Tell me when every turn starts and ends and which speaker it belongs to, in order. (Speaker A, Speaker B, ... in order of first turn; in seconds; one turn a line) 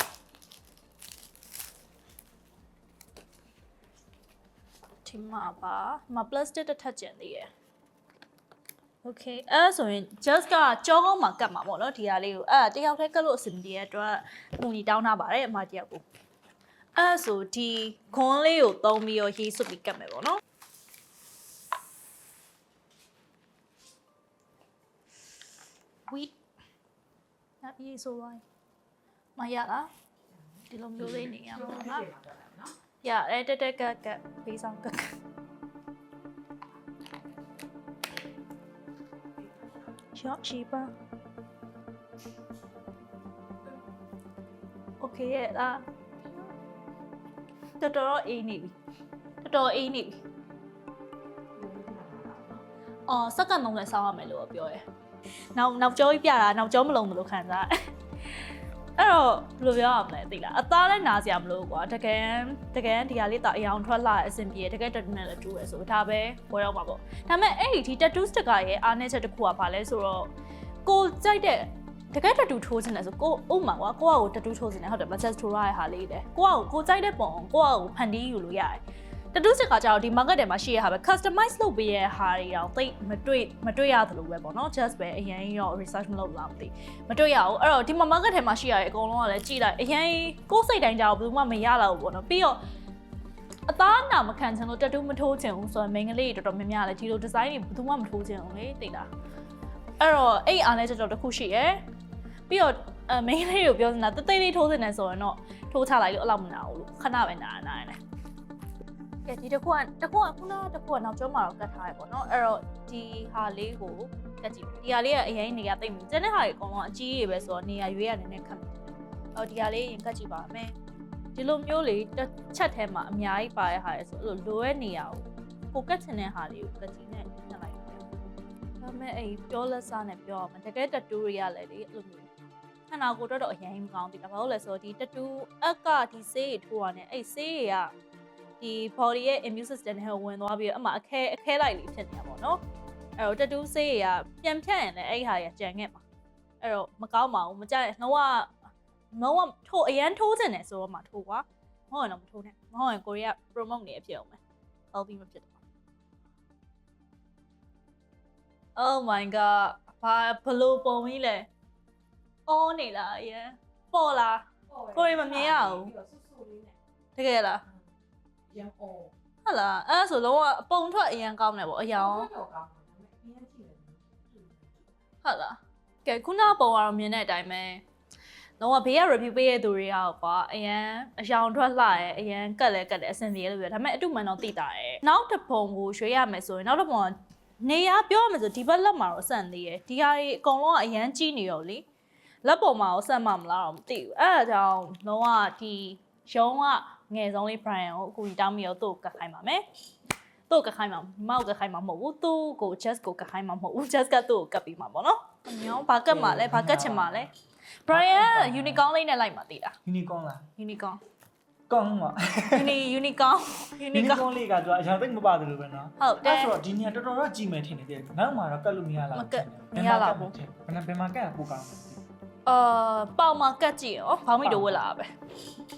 Speaker A: 5.0-7.5
Speaker A: 9.0-16.0
Speaker A: 16.9-20.4
Speaker A: 26.1-26.3
Speaker A: 27.6-28.4
Speaker A: 29.4-29.9
Speaker A: 30.7-32.1
Speaker B: 31.7-32.7
Speaker A: 33.0-35.1
Speaker A: 40.1-40.9
Speaker A: 45.0-45.8
Speaker A: 47.8-48.8
Speaker A: 49.4-50.2
Speaker B: 51.6-52.6
Speaker A: 53.1-54.8
Speaker A: 55.5-57.7
Speaker A: 59.0-70.3
Speaker A: 70.8-78.8
Speaker A: 79.3-92.6
Speaker A: 93.7-99.1
Speaker A: 100.0-101.8
Speaker A: 102.5-108.0
Speaker A: 109.2-120.7
Speaker A: 121.3-128.0
Speaker A: 128.8-132.3
Speaker A: 132.9-137.9
Speaker A: 138.6-142.6
Speaker A: 143.2-146.0
Speaker A: 146.6-148.6
Speaker A: 149.1-154.4
Speaker A: 154.9-155.6
Speaker A: 158.8-161.5
Speaker A: 162.5-165.9
Speaker B: 164.7-166.7
Speaker A: 167.2-167.6
Speaker B: 168.5-169.1
Speaker A: 169.4-172.3
Speaker B: 172.2-174.7
Speaker A: 175.2-177.8
Speaker A: 178.6-191.8
Speaker A: 192.4-199.6
Speaker A: 200.5-207.3
Speaker C: 206.1-207.3
Speaker A: 207.8-209.8
Speaker C: 207.9-208.8
Speaker C: 209.8-210.5
Speaker A: 210.6-211.0
Speaker C: 211.7-212.8
Speaker A: 212.5-214.3
Speaker C: 213.9-222.0
Speaker A: 216.0-216.6
Speaker A: 219.1-220.3
Speaker A: 222.5-225.1
Speaker C: 224.4-224.8